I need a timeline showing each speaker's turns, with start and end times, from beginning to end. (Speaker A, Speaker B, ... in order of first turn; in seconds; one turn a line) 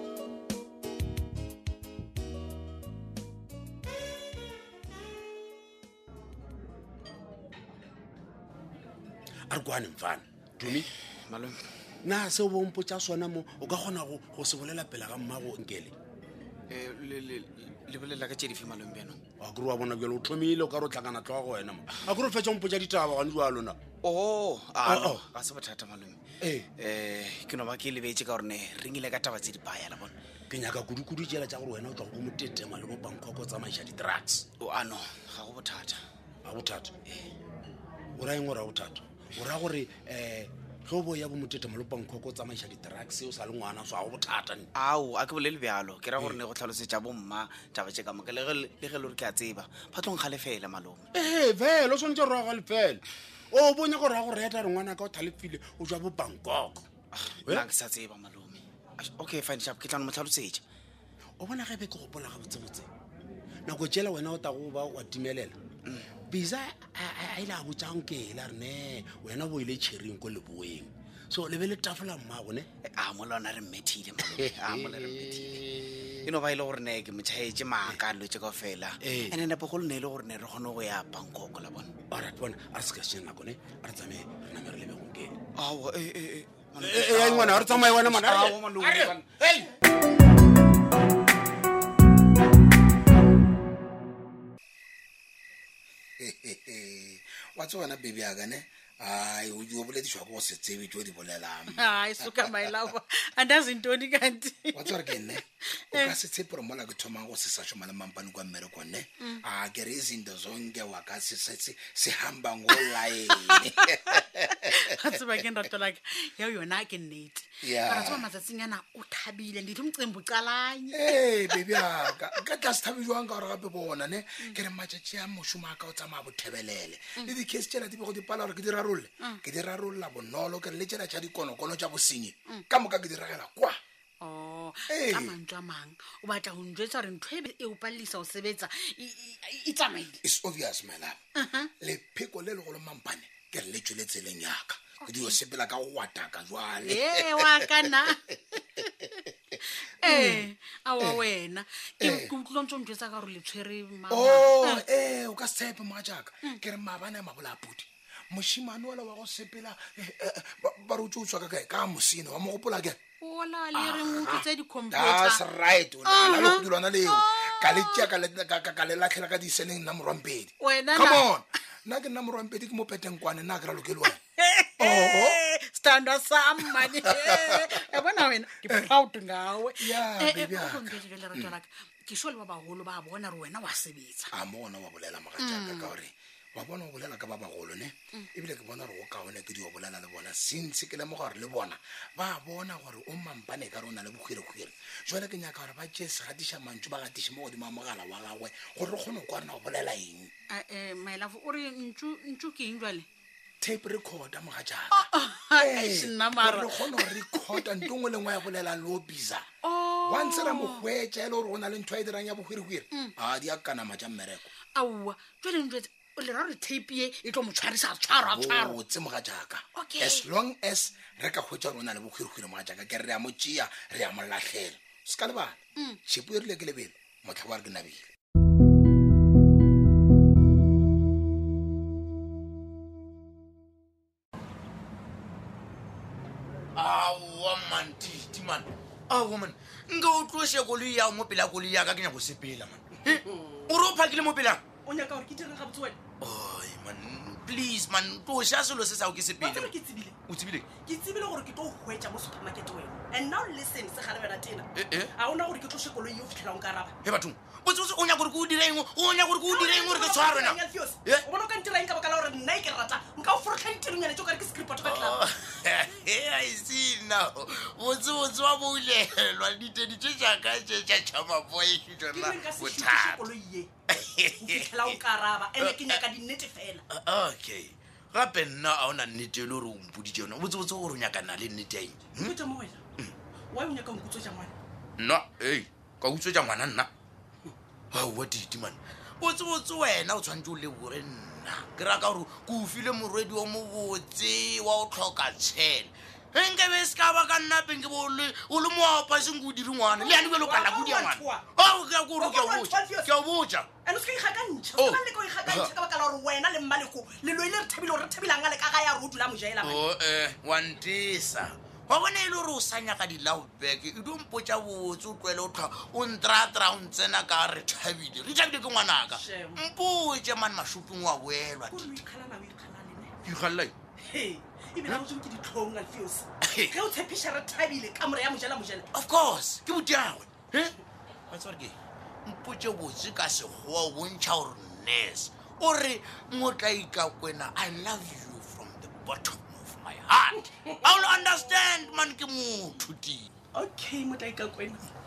Speaker A: 9.5-10.9
Speaker B: 10.6-11.6
Speaker A: 12.0-15.9
Speaker B: 16.7-19.2
Speaker A: 19.4-23.8
Speaker B: 24.0-26.2
Speaker A: 24.8-25.2
Speaker A: 26.4-26.7
Speaker B: 26.8-30.1
Speaker A: 30.5-34.4
Speaker B: 34.6-36.0
Speaker A: 36.4-37.0
Speaker A: 38.1-44.7
Speaker B: 44.7-51.1
Speaker A: 51.1-56.9
Speaker B: 57.1-60.6
Speaker A: 61.4-62.9
Speaker A: 63.6-65.5
Speaker A: 66.3-72.7
Speaker B: 72.8-75.6
Speaker A: 74.3-76.2
Speaker B: 76.2-81.9
Speaker A: 79.0-79.3
Speaker A: 82.1-85.4
Speaker B: 85.5-89.2
Speaker A: 86.8-89.7
Speaker C: 96.2-102.5
Speaker D: 101.7-106.2
Speaker C: 104.7-114.7
Speaker D: 113.3-121.9
Speaker C: 117.6-118.2
Speaker C: 120.9-133.8
Speaker D: 134.2-140.2
Speaker C: 134.9-135.3
Speaker C: 140.2-141.2
Speaker D: 141.3-141.7
Speaker C: 141.8-147.7
Speaker D: 145.0-145.4
Speaker D: 146.8-154.8
Speaker C: 150.0-150.4
Speaker C: 152.0-152.3
Speaker C: 154.1-163.0
Speaker D: 163.2-165.5
Speaker C: 163.8-174.2
Speaker D: 166.0-168.1
Speaker D: 170.6-171.3
Speaker D: 174.4-184.3
Speaker C: 174.8-175.4
Speaker C: 176.9-177.6
Speaker C: 179.8-181.5
Speaker C: 184.3-200.3
Speaker D: 185.4-185.9
Speaker D: 200.5-203.1
Speaker C: 203.6-209.5
Speaker D: 204.9-207.7
Speaker D: 209.6-210.8
Speaker C: 210.0-214.5
Speaker D: 214.7-218.8
Speaker C: 218.2-228.1
Speaker D: 219.7-220.3
Speaker E: 236.8-244.6
Speaker F: 244.8-246.0
Speaker E: 246.2-249.7
Speaker F: 249.4-250.2
Speaker E: 250.3-250.7
Speaker F: 250.8-256.9
Speaker E: 254.7-255.1
Speaker E: 257.0-261.2
Speaker F: 259.5-265.1
Speaker E: 264.8-273.3
Speaker F: 272.1-273.7
Speaker E: 273.9-275.0
Speaker F: 274.4-276.8
Speaker E: 275.6-276.0
Speaker E: 276.9-282.4
Speaker F: 282.2-282.8
Speaker F: 283.5-284.5
Speaker E: 285.0-286.9
Speaker E: 287.9-303.7
Speaker F: 300.0-301.4
Speaker F: 302.2-303.1
Speaker F: 303.9-309.8
Speaker E: 304.8-305.7
Speaker E: 309.6-322.0
Speaker F: 319.2-319.6
Speaker F: 321.7-323.1
Speaker E: 323.2-323.7
Speaker F: 324.0-328.8
Speaker E: 326.4-326.7
Speaker E: 328.9-330.7
Speaker E: 331.3-343.3
Speaker F: 343.5-344.8